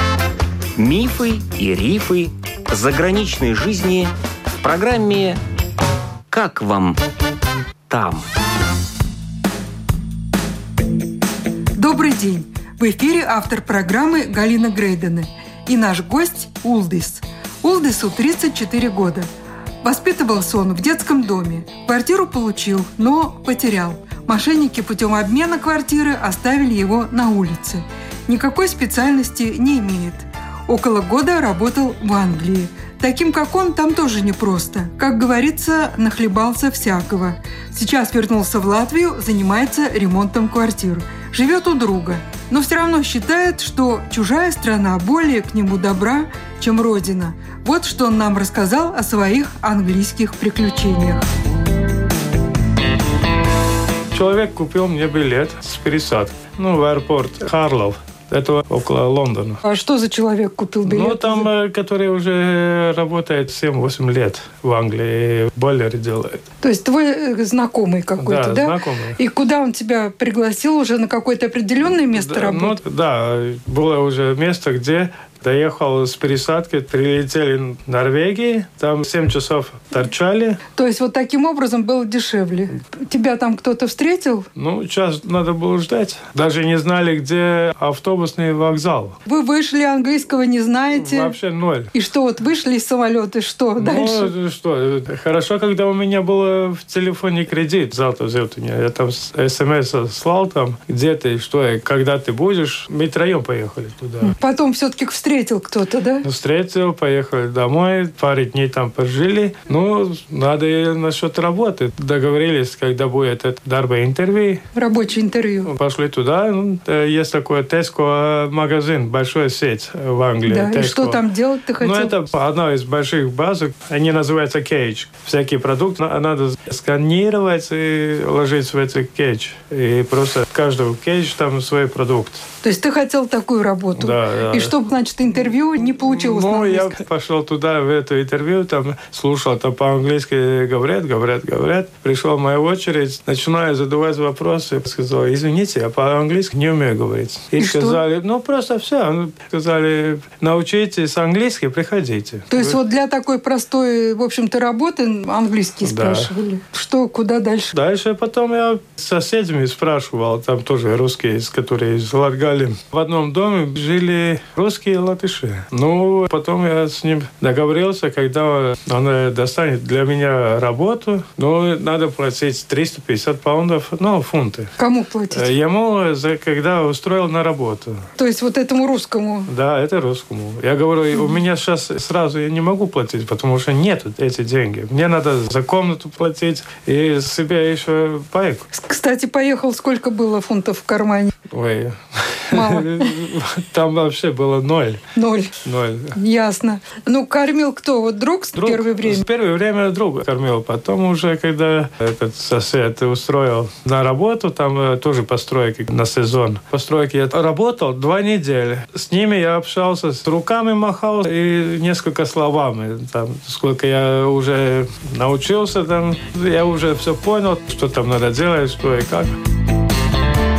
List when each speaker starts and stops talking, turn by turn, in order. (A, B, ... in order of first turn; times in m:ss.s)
0:00.8-0:05.4 A
0:06.3-0:07.0 A
0:07.9-0:08.2 A
0:11.7-0:19.3 B
0:19.8-0:51.2 B
0:54.1-0:59.6 C
0:59.6-1:01.5 B
1:00.8-1:06.4 C
1:06.6-1:12.8 B
1:08.2-1:09.2 C
1:12.1-1:20.6 C
1:20.7-1:24.5 B
1:24.5-1:29.2 C
1:29.2-1:31.3 B
1:30.9-1:31.9 C
1:31.9-1:34.3 B
1:33.8-1:44.4 C
1:44.2-1:46.2 B
1:46.2-1:54.6 C
1:54.7-1:55.7 B
1:55.6-2:01.2 C
2:00.4-2:02.1 B
2:01.8-2:12.4 C
2:12.6-2:17.0 B
2:13.9-2:14.7 C
2:16.0-2:32.8 C
2:27.6-2:28.0 B
2:32.5-2:37.7 B
2:35.8-2:36.3 C
2:37.7-2:54.7 C
2:54.8-2:55.5 B
2:55.3-2:58.0 C
2:58.2-2:59.5 B
2:59.5-3:08.7 C
3:08.7-3:11.4 B
3:11.5-3:15.0 C
3:12.5-3:13.1 B
3:15.1-3:15.6 B
3:15.6-3:16.2 C
3:16.1-3:19.2 B
3:18.6-3:39.3 C